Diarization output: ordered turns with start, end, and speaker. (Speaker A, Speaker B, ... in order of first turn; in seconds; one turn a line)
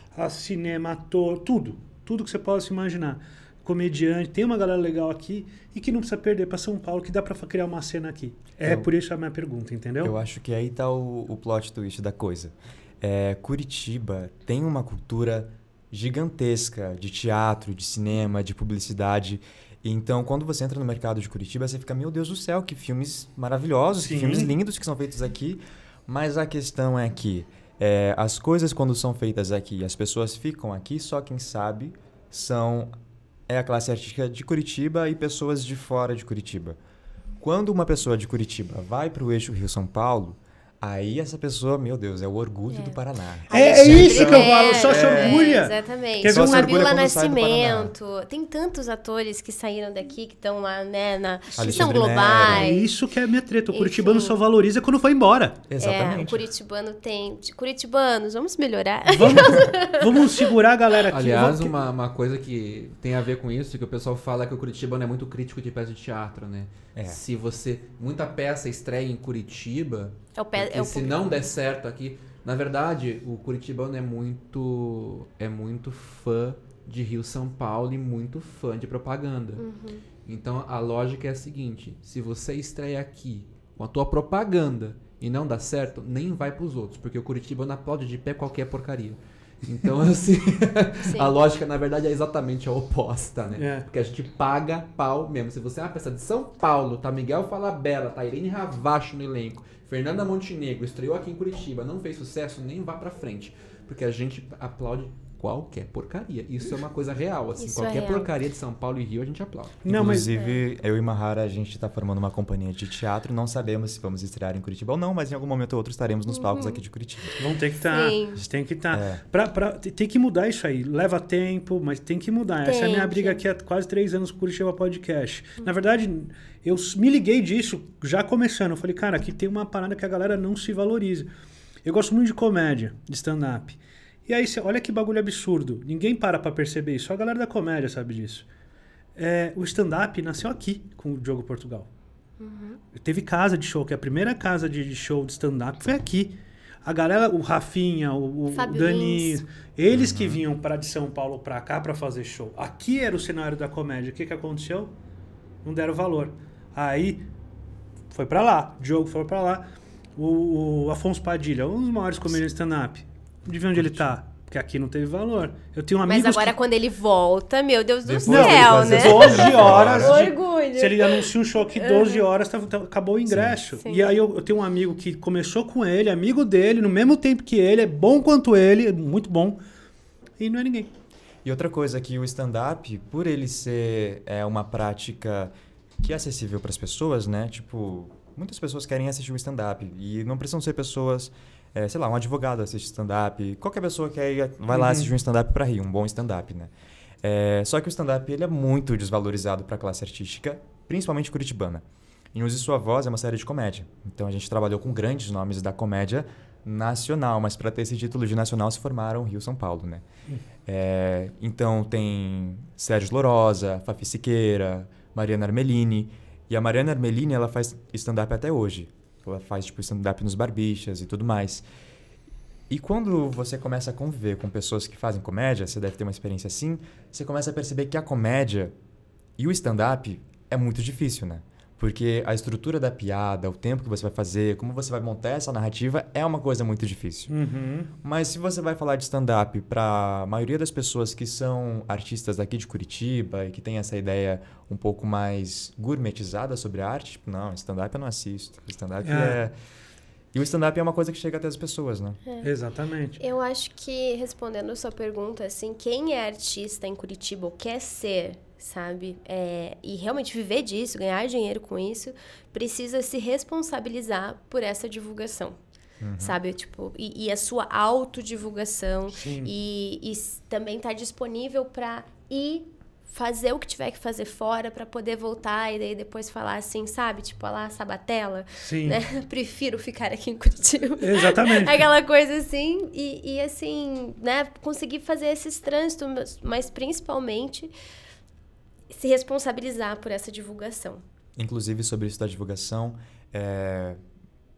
Speaker A: 0.1-10.2
Speaker B: 10.0-32.9
Speaker A: 23.9-24.5
Speaker B: 33.5-36.8
Speaker B: 37.4-45.6
Speaker C: 42.7-43.0
Speaker C: 43.5-52.9
Speaker A: 43.5-46.9
Speaker B: 46.2-47.9
Speaker A: 51.5-55.6
Speaker B: 51.6-52.7
Speaker C: 53.7-54.4
Speaker B: 55.7-56.5
Speaker C: 55.8-60.4
Speaker A: 59.1-61.8
Speaker D: 61.1-79.6
Speaker B: 67.0-67.2
Speaker C: 70.4-71.2
Speaker C: 79.6-80.0
Speaker D: 80.2-109.9
Speaker C: 91.0-91.4
Speaker A: 93.5-93.9
Speaker C: 107.6-108.3
Speaker A: 109.8-110.3
Speaker B: 109.9-117.4
Speaker C: 110.3-110.6
Speaker C: 116.3-116.8
Speaker A: 117.4-131.3
Speaker C: 117.9-118.4
Speaker B: 118.9-119.2
Speaker C: 122.6-123.4
Speaker A: 131.8-138.5
Speaker A: 139.2-141.9
Speaker C: 142.4-142.8
Speaker A: 142.9-154.9
Speaker C: 148.5-149.4
Speaker B: 149.9-150.4
Speaker A: 155.6-157.3
Speaker A: 158.1-166.6
Speaker B: 163.8-164.1
Speaker C: 166.1-172.2
Speaker B: 168.1-170.2
Speaker A: 168.3-179.6
Speaker B: 173.3-173.6
Speaker C: 173.8-174.1
Speaker A: 180.4-180.9
Speaker B: 181.4-210.0
Speaker A: 194.7-195.1
Speaker B: 210.7-221.7
Speaker B: 222.7-228.7
Speaker B: 229.4-237.3
Speaker A: 237.3-237.9
Speaker B: 238.0-249.5
Speaker A: 249.1-249.4
Speaker B: 250.3-252.2
Speaker A: 252.4-253.2
Speaker C: 253.2-265.6
Speaker B: 266.0-266.4
Speaker C: 266.2-287.7
Speaker A: 269.2-269.5
Speaker A: 278.6-279.0
Speaker A: 281.0-281.8
Speaker C: 288.9-291.0
Speaker B: 291.4-294.0